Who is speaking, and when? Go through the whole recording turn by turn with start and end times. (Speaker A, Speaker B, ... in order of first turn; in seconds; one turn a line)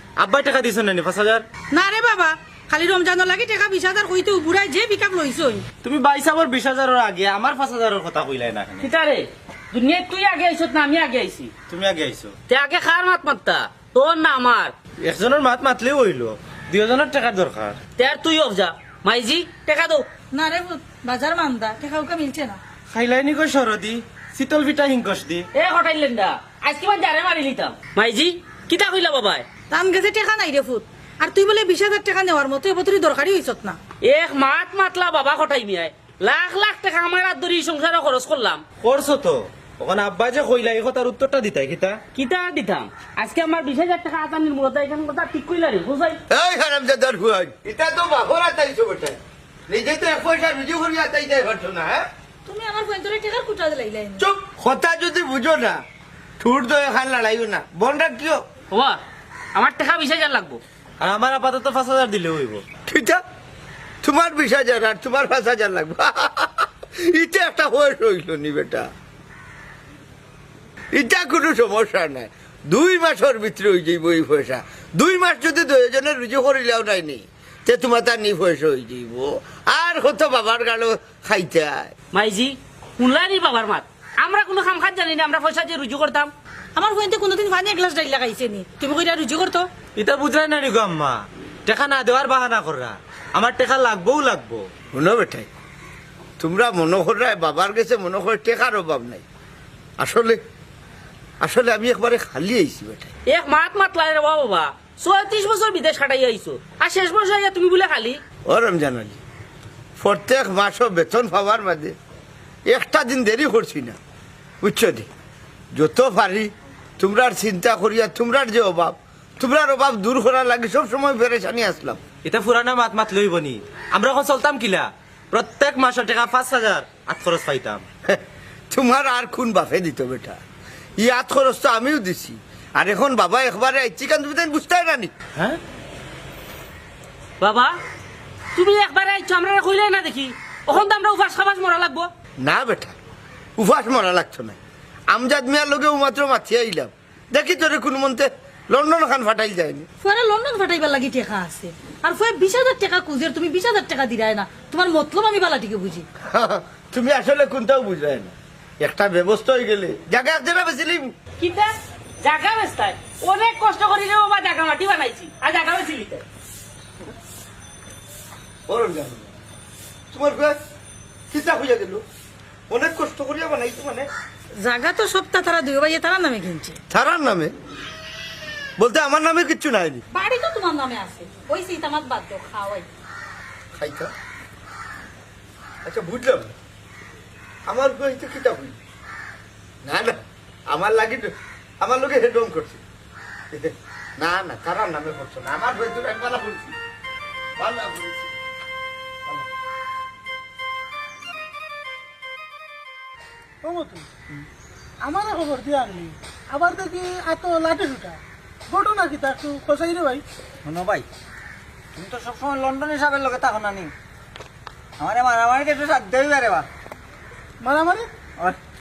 Speaker A: 0.2-1.4
Speaker B: 1.7-5.6
Speaker A: 5.8-8.9
Speaker C: 8.8-11.5
Speaker A: 11.7-12.3
Speaker C: 12.5-14.7
Speaker A: 15.0-17.8
Speaker C: 18.0-20.1
Speaker B: 20.3-22.6
Speaker A: 22.9-25.4
Speaker C: 25.5-29.4
Speaker B: 29.7-33.8
Speaker C: 34.0-38.6
Speaker A: 38.8-42.0
Speaker C: 42.1-46.2
Speaker D: 46.3-52.0
Speaker B: 52.5-54.3
Speaker D: 54.2-55.8
Speaker D: 56.4-58.4
Speaker C: 58.7-59.0
Speaker C: 59.5-60.6
Speaker A: 61.0-62.6
Speaker D: 62.9-63.2
Speaker D: 64.0-68.9
Speaker D: 70.9-81.9
Speaker C: 82.1-86.3
Speaker B: 86.8-89.7
Speaker A: 90.0-94.6
Speaker D: 94.9-95.5
Speaker D: 96.4-99.2
Speaker D: 100.0-100.4
Speaker D: 101.4-103.1
Speaker C: 103.3-108.2
Speaker D: 108.5-109.2
Speaker D: 110.0-112.0
Speaker D: 112.7-114.0
Speaker D: 114.6-115.1
Speaker D: 115.7-122.0
Speaker A: 122.2-127.8
Speaker D: 128.0-130.4
Speaker D: 131.0-135.1
Speaker C: 137.4-137.7
Speaker C: 138.5-142.1
Speaker D: 142.4-142.9
Speaker D: 143.6-144.6
Speaker D: 145.1-149.9
Speaker B: 150.0-156.1
Speaker D: 156.2-161.1
Speaker C: 161.4-166.2
Speaker D: 168.7-169.3
Speaker D: 170.1-170.6
Speaker D: 171.3-172.0
Speaker D: 172.7-174.1
Speaker B: 174.6-176.8
Speaker D: 176.9-177.5
Speaker D: 178.8-180.0
Speaker B: 180.1-182.9
Speaker D: 183.7-184.1
Speaker D: 185.8-186.5
Speaker D: 187.7-188.8
Speaker D: 189.8-190.2
Speaker D: 190.7-192.8
Speaker D: 193.5-196.8
Speaker D: 197.6-198.3
Speaker E: 203.6-204.1
Speaker E: 205.0-210.2
Speaker F: 210.6-211.1
Speaker F: 211.9-213.9
Speaker F: 215.0-216.7
Speaker E: 217.6-218.1